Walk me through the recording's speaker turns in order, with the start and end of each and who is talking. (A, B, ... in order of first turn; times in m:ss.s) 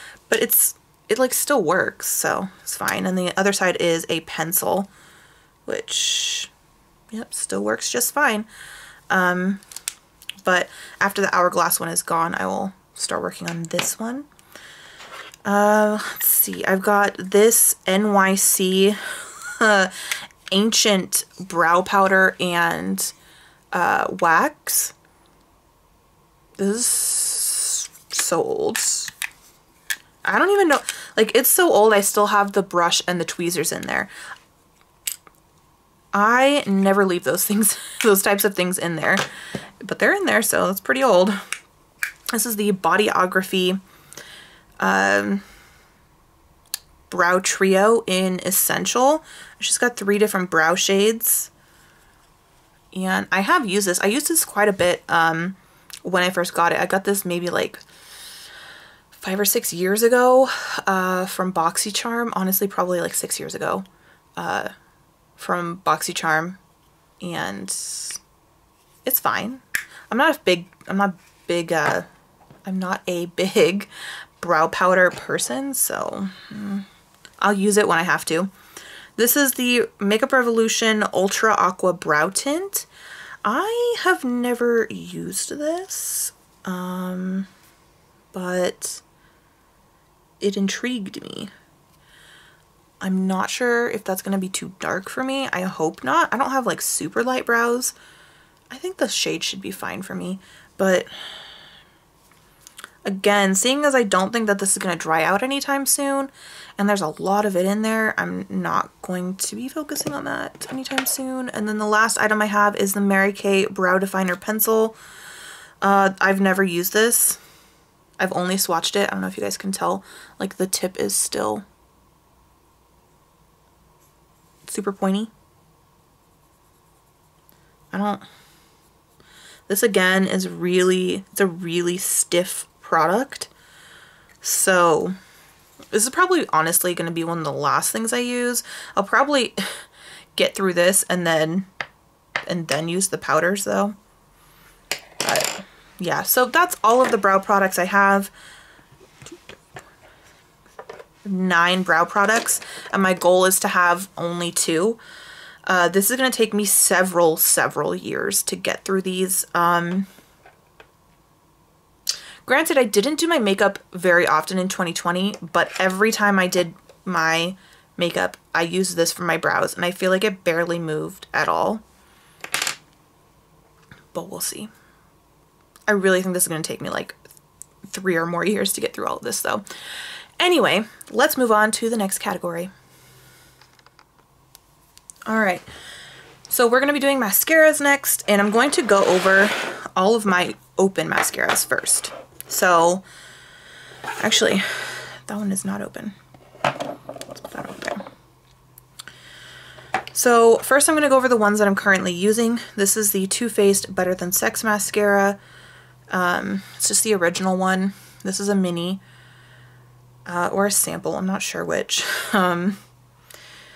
0:00.3-0:04.9 A
0:05.7-0:06.5 A
0:07.1-0:08.5 A
0:09.1-0:09.6 A
0:10.4-0:14.3 A
0:15.4-0:23.1 A
0:23.7-0:25.0 A
0:26.6-0:29.1 A
0:30.2-0:34.1 A
0:36.1-0:39.3 A
0:39.8-0:41.4 A
0:42.3-0:43.8 A
0:44.8-0:45.4 A
0:47.1-0:51.5 A
0:52.9-0:57.8 A
0:59.1-1:03.8 A
1:04.4-1:04.7 A
1:05.4-1:06.6 A
1:07.2-1:08.2 A
1:09.0-1:12.1 A
1:12.7-1:16.9 A
1:17.4-1:18.5 A
1:19.2-1:22.9 A
1:23.4-1:27.5 A
1:28.3-1:29.0 A
1:30.4-1:31.5 A
1:33.0-1:38.0 A
1:38.7-1:41.1 A
1:43.0-1:55.0 A
1:55.8-1:57.4 A
1:58.2-2:01.6 A
2:04.7-2:05.3 A
2:07.9-2:08.2 A
2:09.7-2:13.5 A
2:14.4-2:15.2 A
2:15.9-2:19.8 A
2:20.4-2:21.7 A
2:22.5-2:24.0 A
2:25.2-2:28.3 A
2:31.2-2:35.0 A
2:35.7-2:40.1 A
2:42.4-2:51.8 A
2:54.1-2:54.7 A
2:55.9-2:57.2 A
2:57.9-2:59.6 A
3:00.4-3:02.7 A
3:05.3-3:05.7 A
3:06.5-3:13.0 A
3:14.2-3:16.2 A
3:17.3-3:18.0 A
3:20.1-3:25.4 A
3:26.1-3:29.0 A
3:30.3-3:32.8 A